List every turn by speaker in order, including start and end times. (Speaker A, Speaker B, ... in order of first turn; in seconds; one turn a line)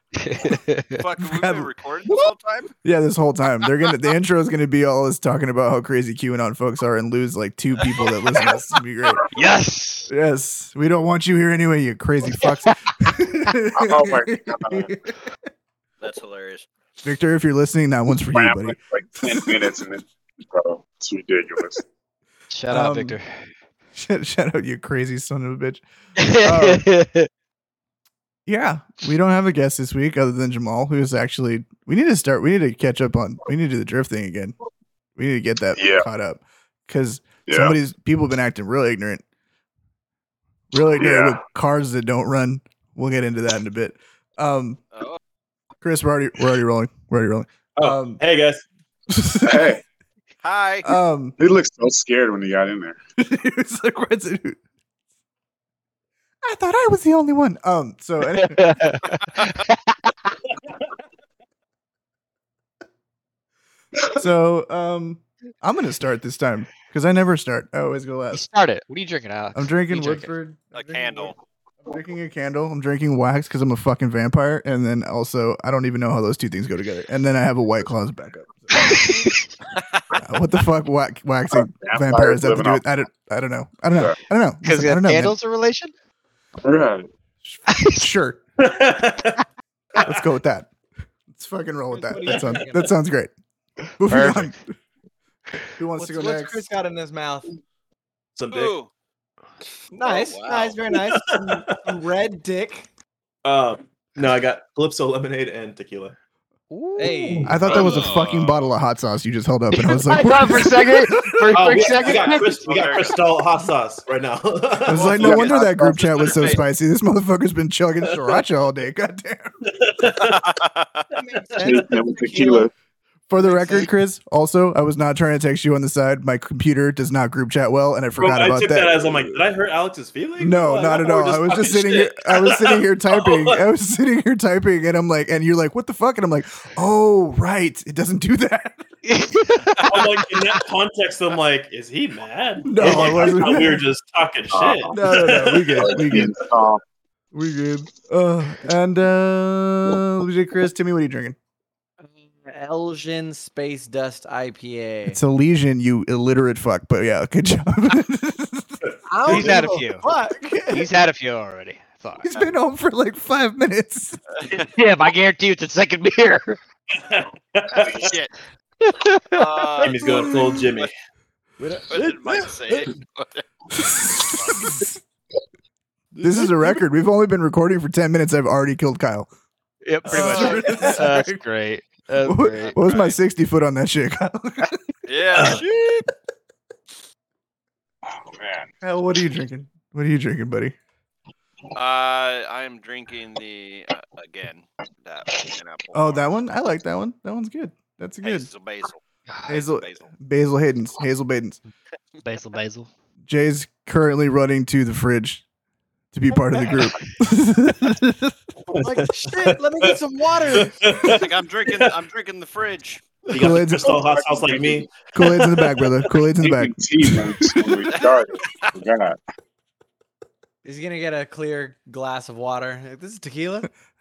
Speaker A: 0.1-1.0
Speaker B: 1.0-2.7
Speaker C: 1.2-1.7
Speaker C: 2.8-9.3
Speaker A: 9.3-10.1
Speaker C: 10.1-15.3
Speaker D: 13.7-14.9
Speaker B: 16.0-16.7
Speaker C: 17.0-19.5
Speaker D: 18.3-21.8
Speaker A: 22.5-23.3
Speaker C: 22.7-23.2
Speaker C: 23.9-25.8
Speaker A: 26.2-27.3
Speaker C: 26.4-26.8
Speaker C: 28.4-34.5
Speaker C: 35.1-39.2
Speaker D: 35.8-36.0
Speaker D: 37.5-37.7
Speaker C: 40.7-44.8
Speaker D: 41.0-41.4
Speaker B: 44.9-45.2
Speaker C: 45.8-48.2
Speaker E: 47.8-48.6
Speaker C: 49.1-49.8
Speaker D: 49.4-49.8
Speaker B: 50.4-50.9
Speaker C: 50.8-51.4
Speaker D: 51.4-53.0
Speaker C: 53.2-54.6
Speaker C: 56.4-58.8
Speaker A: 58.2-60.3
Speaker C: 64.1-68.4
Speaker A: 68.3-70.3
Speaker C: 69.5-79.0
Speaker B: 70.7-71.4
Speaker A: 78.7-79.5
Speaker C: 80.2-85.3
Speaker D: 81.7-82.8
Speaker A: 84.6-85.9
Speaker D: 86.6-87.1
Speaker C: 87.4-88.4
Speaker A: 87.7-88.0
Speaker E: 88.6-89.4
Speaker C: 90.0-90.7
Speaker E: 90.0-90.2
Speaker C: 91.3-93.3
Speaker F: 91.9-92.9
Speaker E: 92.3-92.6
Speaker C: 94.0-94.6
Speaker A: 94.1-94.5
Speaker C: 95.8-96.6
Speaker F: 96.0-97.5
Speaker E: 98.3-98.8
Speaker B: 98.5-98.9
Speaker F: 99.9-102.9
Speaker B: 100.0-100.8
Speaker E: 100.9-101.9
Speaker E: 103.4-106.1
Speaker A: 106.7-107.4
Speaker F: 107.0-107.5
Speaker E: 107.0-107.8
Speaker C: 107.4-111.5
Speaker B: 107.6-108.7
Speaker A: 109.7-112.5
Speaker E: 111.5-116.3
Speaker B: 111.7-113.3
Speaker C: 114.8-119.5
Speaker B: 115.0-116.6
Speaker E: 118.0-118.4
Speaker E: 119.7-120.5
Speaker B: 120.2-121.0
Speaker F: 121.1-122.7
Speaker D: 121.6-122.7
Speaker C: 123.3-129.1
Speaker F: 123.4-123.9
Speaker E: 128.2-133.6
Speaker C: 130.4-138.8
Speaker A: 139.0-140.5
Speaker E: 139.8-145.9
Speaker C: 142.6-143.8
Speaker D: 144.5-144.9
Speaker C: 144.9-146.3
Speaker D: 145.8-146.8
Speaker C: 147.3-151.4
Speaker F: 152.3-155.2
Speaker C: 155.1-158.8
Speaker F: 159.1-160.9
Speaker A: 159.2-160.1
Speaker E: 159.3-159.6
Speaker A: 160.7-162.2
Speaker C: 162.2-164.2
Speaker B: 164.3-164.7
Speaker A: 164.5-166.6
Speaker E: 166.9-168.1
Speaker D: 167.7-168.1
Speaker B: 168.0-168.3
Speaker A: 168.8-169.7
Speaker B: 169.3-170.9
Speaker E: 169.8-170.9
Speaker C: 170.0-170.6
Speaker F: 171.6-172.0
Speaker B: 171.9-173.4
Speaker E: 171.9-172.9
Speaker C: 173.8-174.9
Speaker B: 174.1-174.7
Speaker E: 176.1-176.8
Speaker C: 176.2-179.3
Speaker A: 179.8-182.8
Speaker C: 180.1-181.4
Speaker B: 180.1-180.9
Speaker C: 182.2-184.8
Speaker B: 182.6-183.2
Speaker B: 185.1-185.7
Speaker E: 185.3-186.0
Speaker D: 188.2-188.7
Speaker C: 188.8-190.7
Speaker B: 191.7-196.4
Speaker C: 195.9-198.5
Speaker B: 198.2-200.1
Speaker A: 199.3-199.6
Speaker C: 199.5-201.6
Speaker A: 202.2-202.9
Speaker C: 203.2-205.4
Speaker C: 206.1-208.4
Speaker E: 208.7-211.9
Speaker F: 208.8-210.8
Speaker B: 211.0-213.1
Speaker E: 213.3-216.1
Speaker C: 213.3-214.0
Speaker D: 213.8-214.9
Speaker C: 215.1-217.7
Speaker D: 216.4-219.2
Speaker B: 217.9-218.7
Speaker F: 220.6-223.7